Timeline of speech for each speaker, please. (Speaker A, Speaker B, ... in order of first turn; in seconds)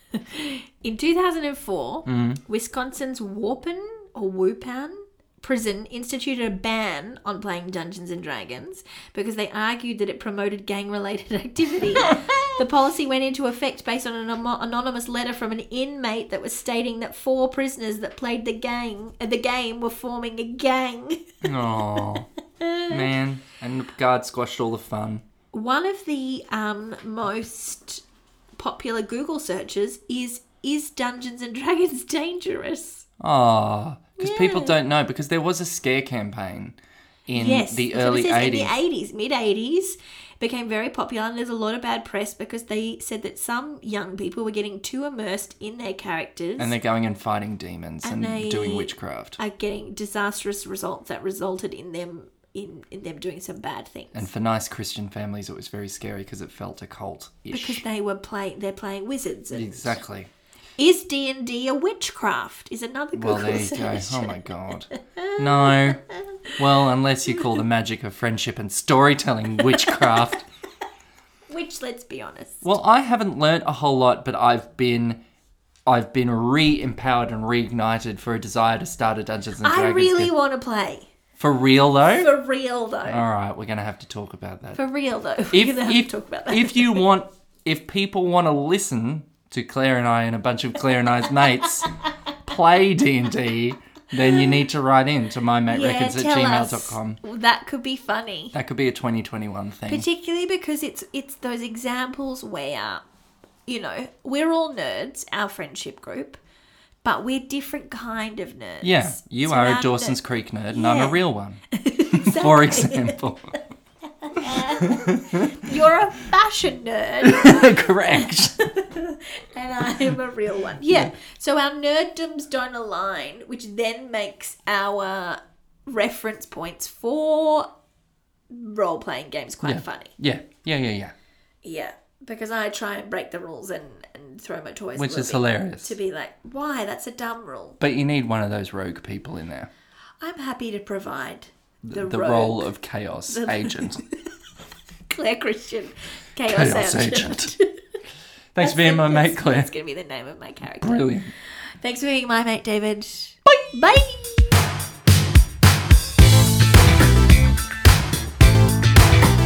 Speaker A: 0.1-23.1, 25.5-28.0, 28.6-33.0, 34.2-34.8, 37.3-46.7, 48.0-54.3, 57.5-60.0, 60.8-64.4, 64.9-66.6, 69.7-70.2, 71.5-72.6, 79.6-81.1, 82.1-83.2, 84.8-87.0, 94.2-94.5, 95.7-98.5, 99.9-103.0, 103.7-106.4, 107.0-110.2, 110.7-111.2, 111.7-113.2, 114.2-127.7, 128.5-130.1, 131.6-137.8, 140.2-142.7, 143.3-144.2, 145.1-147.7, 148.6-151.0, 151.8-154.6
Speaker B: 2.0-2.4, 21.4-22.3, 22.9-25.2, 33.2-36.8, 37.3-38.7, 46.6-49.4, 54.1-57.8, 59.5-60.3, 63.1-66.0, 66.6-70.4, 72.6-75.2, 75.9-80.3, 81.4-82.3, 83.1-84.8, 85.5-91.9, 92.4-97.2, 98.5-100.1, 108.8-113.5, 114.3-115.8, 117.2-118.7, 129.6-131.1, 134.9-135.9, 137.8-139.7, 141.8-144.0, 146.5-147.5, 148.5-149.7, 150.8-151.3